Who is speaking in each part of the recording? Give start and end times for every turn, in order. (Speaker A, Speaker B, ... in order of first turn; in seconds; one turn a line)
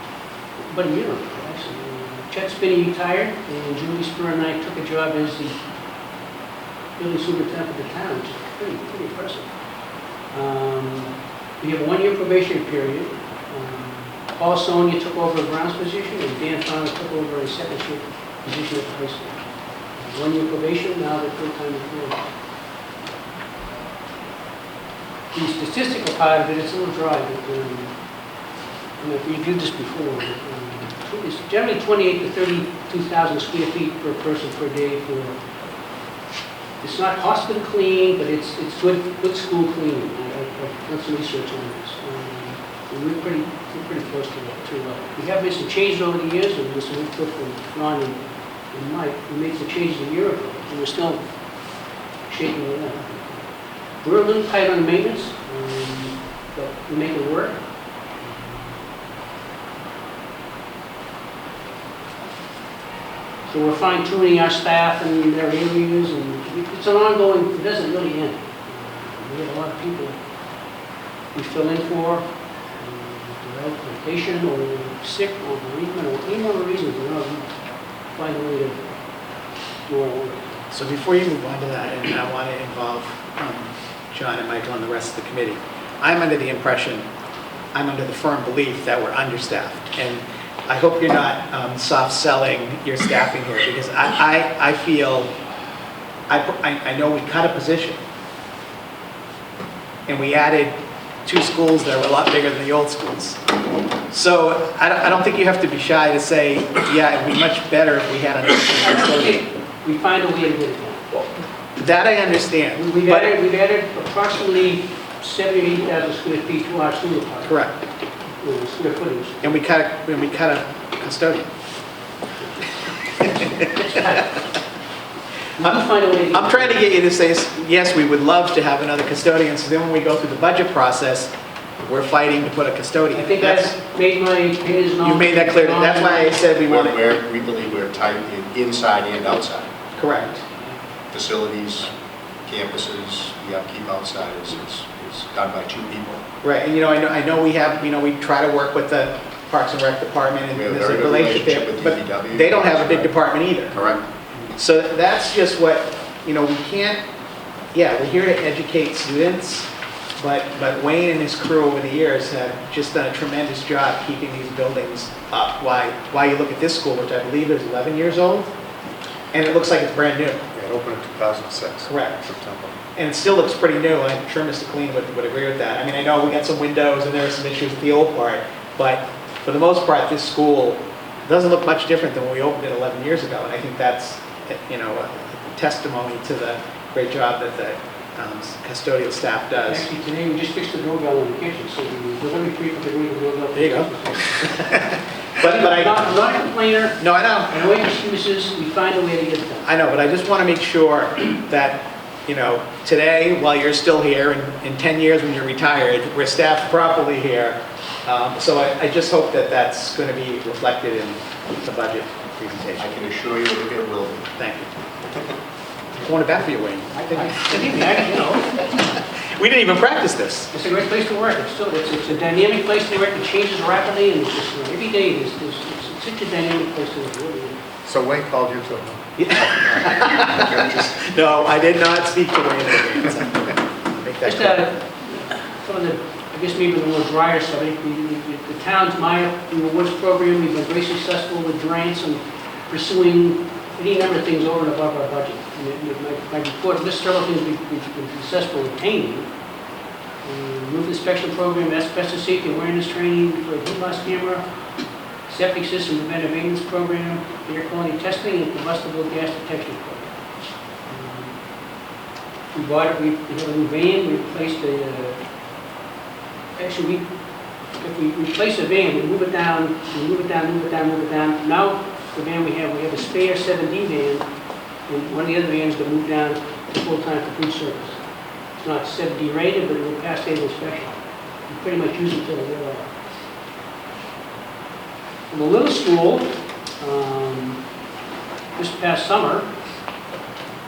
Speaker A: 0.6-5.6
Speaker A: 7.0-9.5
Speaker A: 10.3-19.4
Speaker A: 20.0-22.2
Speaker A: 25.3-27.9
Speaker A: 29.0-35.4
Speaker A: 36.8-48.2
Speaker A: 48.7-51.2
Speaker A: 52.3-53.5
Speaker A: 54.0-57.6
Speaker A: 58.2-58.8
Speaker A: 63.5-70.2
Speaker A: 71.3-72.3
Speaker A: 72.8-77.5
Speaker A: 78.1-78.9
Speaker A: 79.9-80.6
Speaker B: 80.7-87.1
Speaker B: 87.7-95.3
Speaker B: 96.3-98.0
Speaker B: 100.1-103.4
Speaker B: 104.1-109.4
Speaker A: 108.8-111.1
Speaker B: 111.8-113.4
Speaker A: 112.8-117.6
Speaker B: 117.5-117.7
Speaker A: 118.4-119.6
Speaker B: 119.4-121.5
Speaker A: 123.2-124.4
Speaker B: 123.3-123.7
Speaker A: 125.6-126.8
Speaker B: 125.6-131.3
Speaker B: 131.8-133.8
Speaker A: 133.1-136.4
Speaker B: 135.0-137.0
Speaker C: 136.6-139.7
Speaker B: 140.0-140.4
Speaker C: 141.1-141.9
Speaker C: 142.5-146.2
Speaker B: 146.4-153.8
Speaker C: 150.5-153.1
Speaker C: 153.7-154.1
Speaker B: 154.5-157.0
Speaker B: 157.7-168.5
Speaker B: 169.3-170.4
Speaker D: 170.5-172.8
Speaker B: 171.9-172.3
Speaker B: 172.9-189.9
Speaker A: 189.6-194.5
Speaker B: 193.6-196.0
Speaker A: 195.4-199.7
Speaker B: 197.0-197.5
Speaker B: 199.7-212.9
Speaker C: 212.8-214.3
Speaker B: 214.4-214.7
Speaker B: 216.0-220.5
Speaker A: 217.0-218.7
Speaker A: 220.5-227.6
Speaker D: 227.8-230.9
Speaker B: 229.2-234.7
Speaker A: 234.2-249.3
Speaker A: 250.2-254.4
Speaker A: 255.3-260.1
Speaker A: 260.9-261.4
Speaker A: 262.5-265.2
Speaker A: 266.6-267.1
Speaker A: 267.8-274.3
Speaker A: 274.9-278.0
Speaker A: 278.6-282.9
Speaker A: 285.3-287.6
Speaker A: 288.6-289.5